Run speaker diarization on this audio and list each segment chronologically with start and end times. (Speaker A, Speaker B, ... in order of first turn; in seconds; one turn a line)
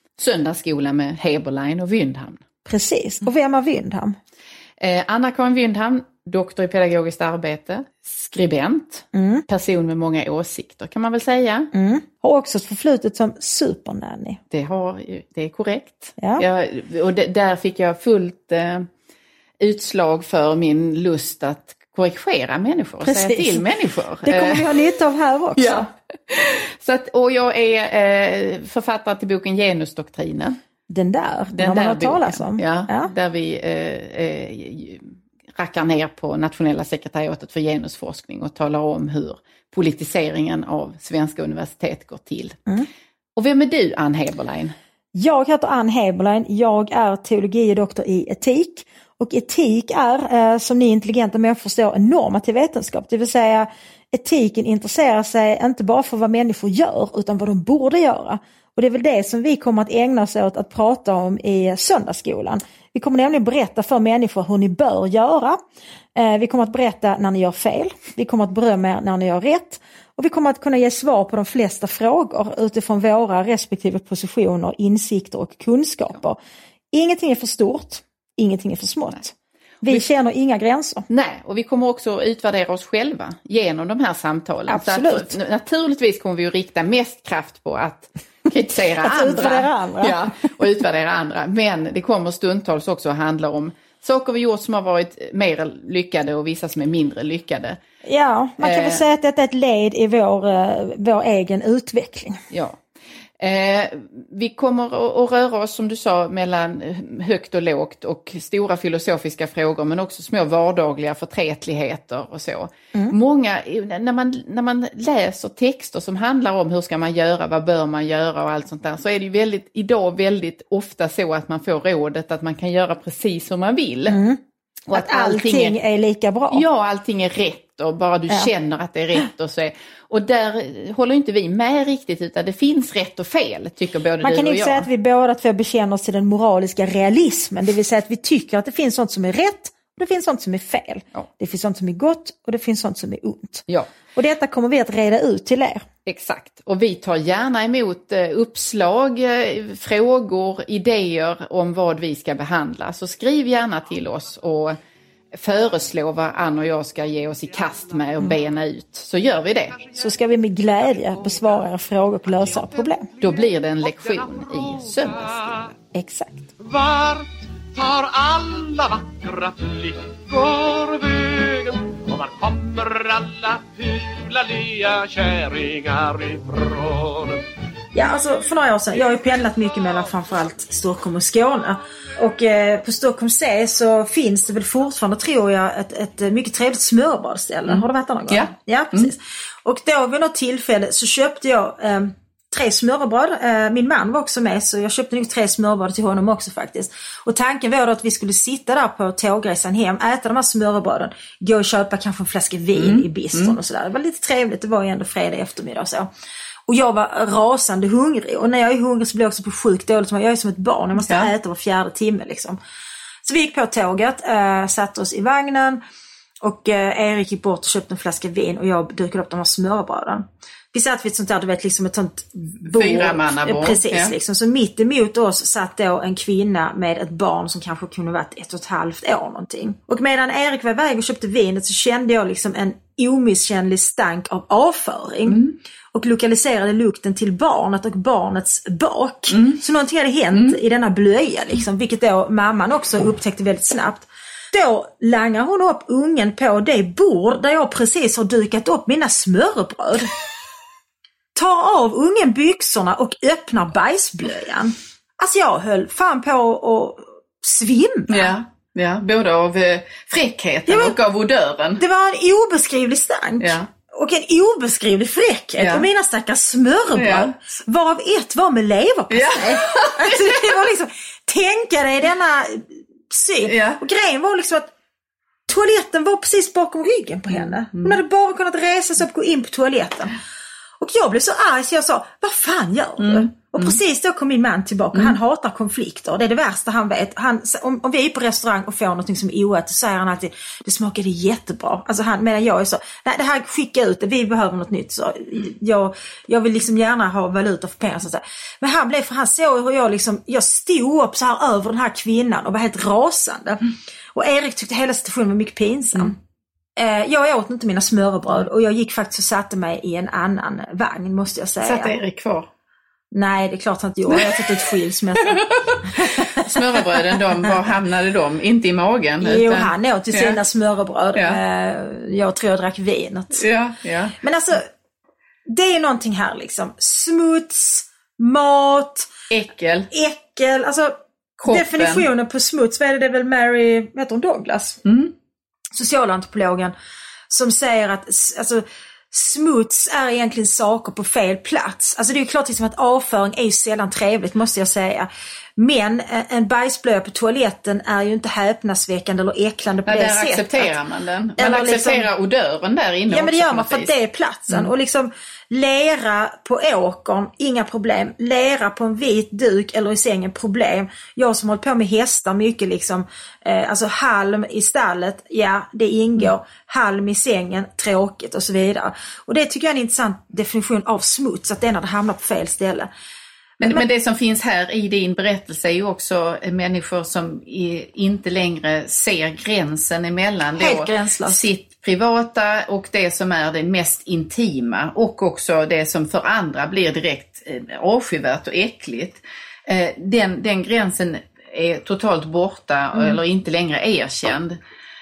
Speaker A: 0.2-2.4
Speaker B: 2.6-4.2
Speaker A: 4.8-11.7
Speaker B: 9.1-9.4
Speaker B: 11.7-14.4
Speaker A: 14.5-18.9
Speaker B: 16.2-16.4
Speaker A: 19.6-24.6
Speaker B: 23.0-23.6
Speaker B: 24.2-25.9
Speaker A: 25.6-30.6
Speaker B: 30.9-33.1
Speaker A: 31.5-42.6
Speaker A: 43.4-44.7
Speaker B: 45.1-65.6
Speaker B: 66.1-76.4
Speaker B: 76.9-81.1
Speaker A: 81.1-97.8
Speaker B: 84.7-85.3
Speaker B: 89.0-90.2
Speaker B: 98.0-102.4
Speaker A: 98.6-99.0
Speaker A: 102.5-102.8
Speaker A: 103.4-124.2
Speaker B: 124.1-124.4
Speaker A: 124.9-125.8
Speaker B: 124.9-126.6
Speaker A: 126.5-134.9
Speaker B: 134.2-145.9
Speaker A: 146.0-154.8
Speaker A: 155.3-159.8
Speaker C: 159.7-161.6
Speaker B: 159.9-163.1
Speaker C: 162.3-165.7
Speaker A: 163.2-165.7
Speaker B: 165.9-166.5
Speaker C: 166.6-177.4
Speaker B: 177.9-206.1
Speaker A: 187.7-189.1
Speaker A: 202.7-203.6
Speaker B: 206.7-212.6
Speaker A: 211.0-211.3
Speaker B: 213.2-215.8
Speaker B: 216.4-250.1
Speaker A: 222.6-224.1
Speaker A: 235.3-235.5
Speaker A: 239.3-239.6
Speaker B: 251.3-258.3
Speaker A: 258.1-261.8
Speaker B: 260.7-260.9
Speaker B: 261.8-274.7
Speaker A: 263.4-263.7
Speaker A: 265.6-265.9
Speaker A: 266.9-267.3
Speaker A: 269.1-270.6
Speaker A: 273.5-273.8
Speaker B: 275.5-280.2
Speaker B: 280.8-306.1
Speaker A: 283.0-283.8
Speaker B: 306.8-312.0
Speaker A: 311.6-312.5
Speaker B: 313.1-317.4
Speaker A: 315.4-320.4
Speaker B: 319.2-323.4
Speaker A: 323.4-324.1
Speaker B: 324.2-324.7
Speaker B: 325.4-329.1
Speaker A: 329.3-329.9
Speaker B: 329.9-334.8
Speaker A: 331.4-332.1
Speaker A: 334.8-335.1
Speaker B: 335.7-336.7
Speaker B: 337.3-350.8
Speaker A: 349.9-353.9
Speaker B: 351.4-352.1
Speaker B: 353.1-372.9
Speaker A: 373.6-394.6
Speaker B: 380.6-381.4